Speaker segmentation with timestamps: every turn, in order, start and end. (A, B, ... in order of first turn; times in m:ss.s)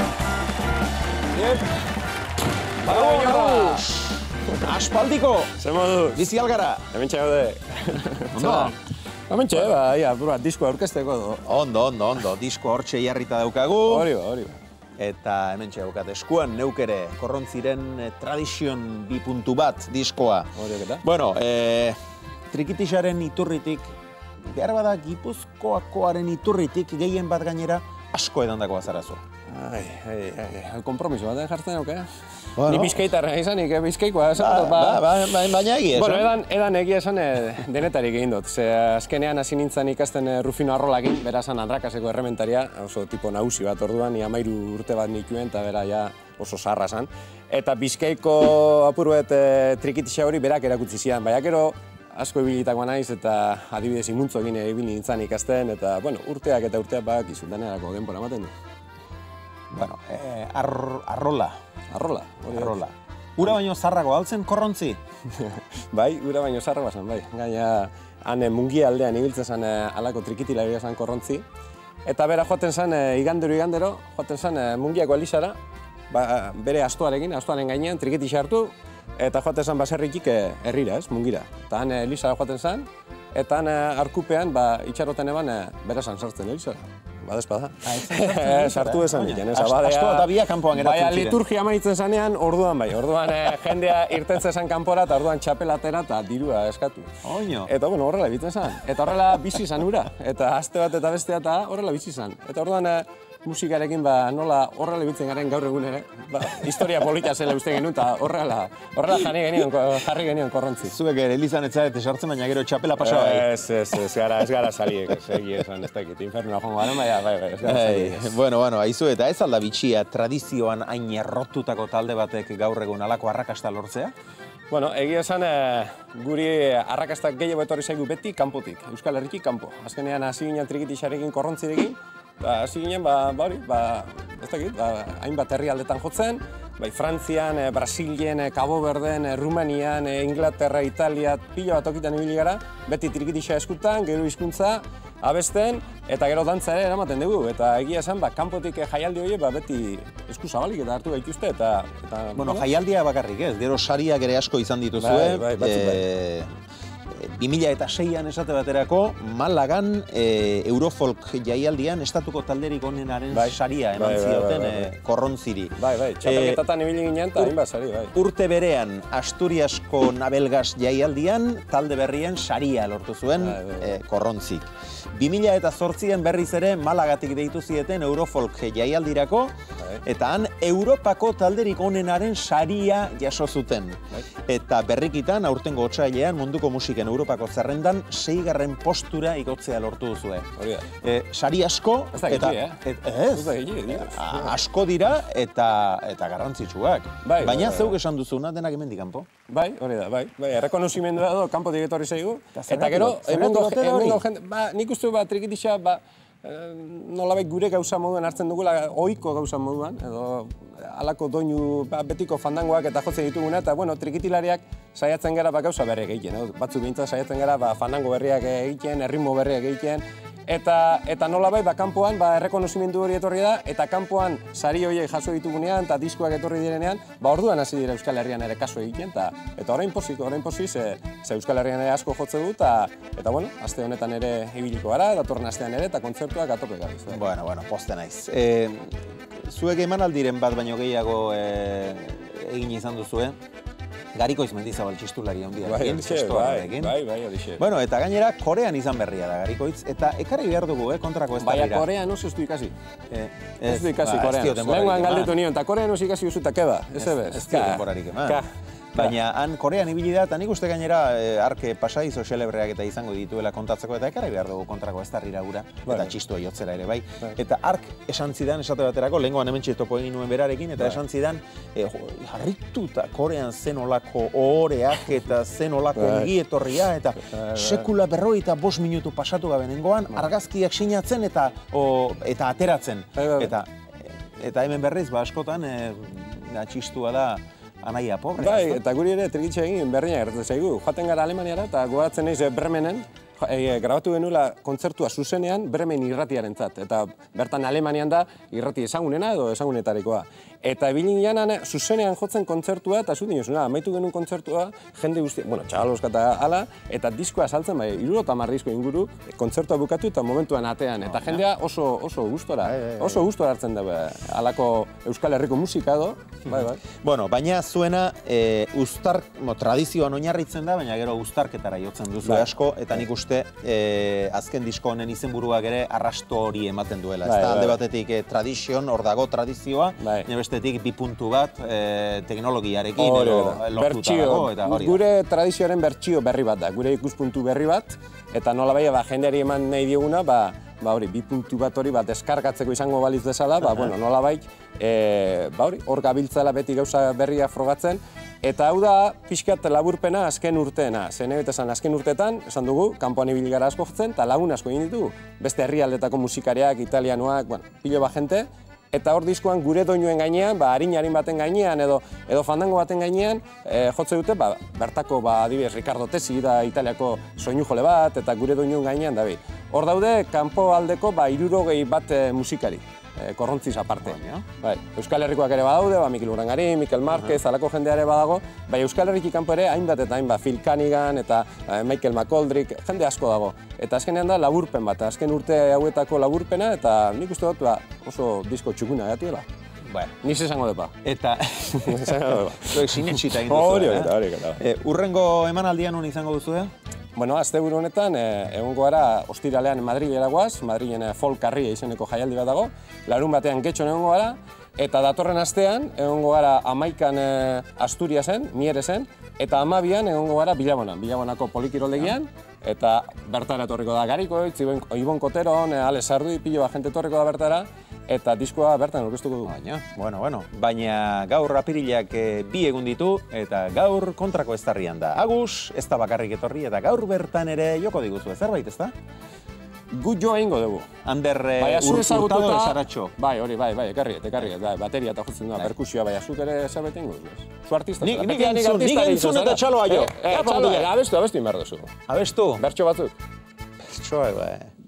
0:01.3-0:01.7 A
0:02.8-0:03.9 A
0:02.8-0:05.6 B
0:05.6-0:06.3 A
0:06.1-0:06.9 B
0:06.9-0:08.7 A
0:08.3-0:08.7 B
0:09.3-0:11.5 A
0:11.4-0:14.1 B
0:13.9-0:14.6 A
0:15.0-0:22.0 B
0:20.6-0:21.0 A
0:22.5-0:23.9 B
0:24.4-0:29.2 B
0:29.5-0:35.3 A
0:32.6-0:33.1 B
0:34.4-0:36.3 B
0:35.9-0:58.5 A
0:59.7-1:01.6 B
1:01.9-1:02.8 A
1:02.5-1:05.0 B
1:05.3-1:11.4 A
1:12.0-1:15.6 A
1:16.1-1:37.1 A
1:27.8-1:31.4 B
1:37.2-1:37.7 B
1:37.6-1:50.9 A
1:50.8-1:53.4 B
1:53.0-1:58.4 A
1:57.6-2:04.1 B
2:04.7-2:32.7 A
2:32.4-2:36.5 B
2:35.0-2:36.0 A
2:37.1-2:46.6 B
2:43.3-2:44.9 A
2:45.8-2:48.1 A
2:48.1-3:19.3 B
2:53.4-2:54.0 A
3:10.6-3:10.9 A
3:12.1-3:14.5 A
3:17.2-3:18.0 A
3:19.5-3:57.2 A
3:22.5-3:24.2 B
3:57.1-4:03.4 B
4:04.1-4:06.9 B
4:05.6-4:07.6 A
4:07.6-4:11.9 B
4:11.4-4:12.7 A
4:13.1-4:15.4 B
4:13.6-4:19.1 A
4:17.0-4:48.8 B
4:36.0-4:36.3 A
4:37.3-4:37.8 A
4:43.2-4:43.5 A
4:48.4-5:16.8 A
5:11.1-5:11.4 B
5:12.7-5:13.2 B
5:16.8-5:35.0 B
5:27.2-5:27.8 A
5:30.0-5:30.3 A
5:33.0-6:29.4 A
5:43.6-5:43.9 B
6:14.0-6:14.4 B
6:29.8-6:30.2 B
6:30.2-6:31.0 A
6:31.0-6:36.7 B
6:31.8-6:34.6 A
6:37.2-6:59.6 A
6:59.4-7:08.9 B
7:09.9-7:10.9 A
7:11.0-7:13.1 B
7:11.6-7:21.9 A
7:18.0-7:20.9 B
7:22.1-7:22.6 B
7:22.6-7:23.1 A
7:23.8-7:24.7 B